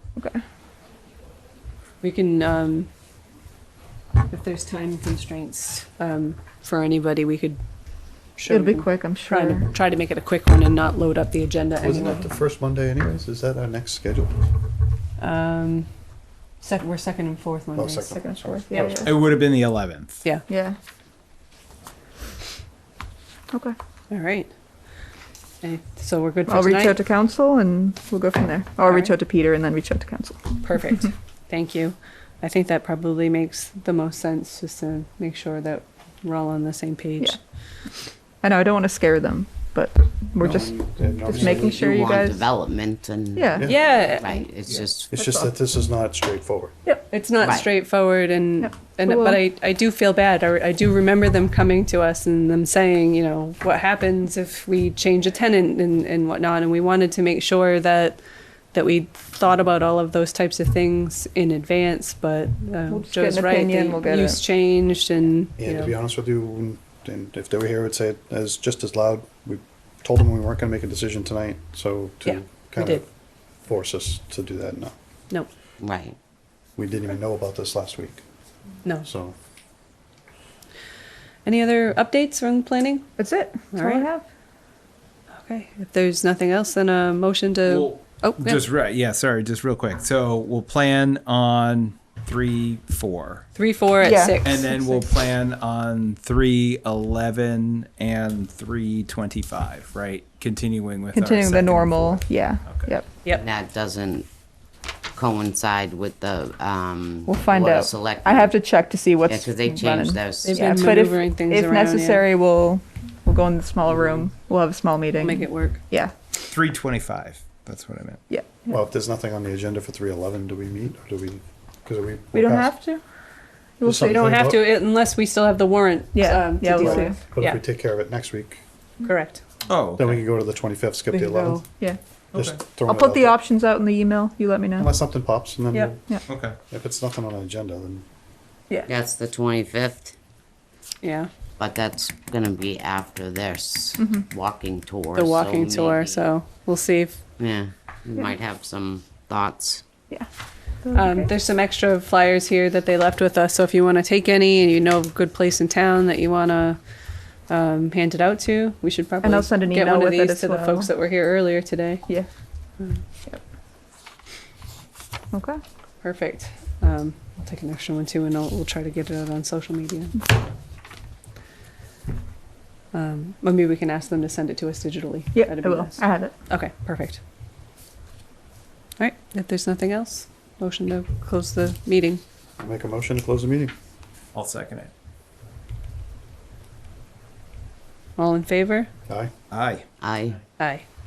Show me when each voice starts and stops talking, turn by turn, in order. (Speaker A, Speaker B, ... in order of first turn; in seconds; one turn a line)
Speaker A: 2.0-2.9
Speaker A: 4.3-7.6
Speaker A: 8.3-12.3
Speaker B: 8.5-9.7
Speaker C: 11.8-14.4
Speaker A: 15.2-15.9
Speaker A: 16.6-18.2
Speaker C: 17.7-19.2
Speaker B: 18.1-19.2
Speaker D: 19.0-20.3
Speaker B: 20.5-20.8
Speaker A: 24.1-24.5
Speaker A: 25.6-27.0
Speaker B: 26.5-31.0
Speaker A: 28.9-29.1
Speaker A: 30.6-37.4
Speaker B: 38.4-42.4
Speaker C: 40.4-41.7
Speaker E: 41.3-45.2
Speaker B: 43.4-43.7
Speaker A: 43.6-44.5
Speaker C: 45.1-46.7
Speaker B: 45.1-45.5
Speaker A: 47.0-58.2
Speaker E: 47.4-47.7
Speaker B: 48.6-49.4
Speaker A: 58.7-66.0
Speaker B: 62.9-64.4
Speaker C: 65.6-73.1
Speaker A: 72.2-73.0
Speaker C: 73.7-75.0
Speaker E: 75.8-76.2
Speaker C: 76.8-78.2
Speaker C: 79.0-79.3
Speaker A: 81.5-83.1
Speaker B: 83.2-84.2
Speaker A: 83.7-84.1
Speaker A: 85.4-88.7
Speaker D: 87.7-93.5
Speaker A: 93.5-95.1
Speaker B: 94.0-94.4
Speaker D: 94.4-103.0
Speaker B: 101.1-103.1
Speaker E: 103.3-104.3
Speaker E: 105.2-108.5
Speaker B: 107.3-116.1
Speaker E: 109.3-110.8
Speaker A: 110.4-112.2
Speaker C: 113.9-114.2
Speaker A: 115.2-115.8
Speaker D: 116.4-118.2
Speaker B: 118.3-118.7
Speaker C: 118.7-122.7
Speaker B: 122.3-123.0
Speaker B: 123.8-124.3
Speaker C: 123.8-124.7
Speaker A: 124.0-127.6
Speaker B: 126.1-127.2
Speaker C: 126.6-128.6
Speaker A: 129.0-129.4
Speaker D: 129.7-130.2
Speaker C: 130.0-131.7
Speaker A: 131.1-131.7
Speaker D: 132.3-132.7
Speaker C: 132.3-133.4
Speaker B: 132.8-134.9
Speaker C: 134.8-138.1
Speaker D: 136.3-136.6
Speaker E: 138.9-140.2
Speaker A: 141.0-141.3
Speaker E: 141.6-146.3
Speaker B: 144.0-144.3
Speaker A: 145.2-147.2
Speaker E: 147.4-149.8
Speaker B: 150.8-151.3
Speaker A: 150.9-156.8
Speaker A: 157.5-162.1
Speaker B: 159.2-160.9
Speaker B: 165.3-165.6
Speaker A: 166.0-170.2
Speaker A: 172.9-177.2
Speaker B: 175.3-176.3
Speaker A: 179.0-182.2
Speaker C: 182.6-183.7
Speaker D: 184.3-184.9
Speaker A: 188.2-188.9
Speaker D: 189.5-189.8
Speaker E: 190.0-190.4
Speaker A: 190.6-190.9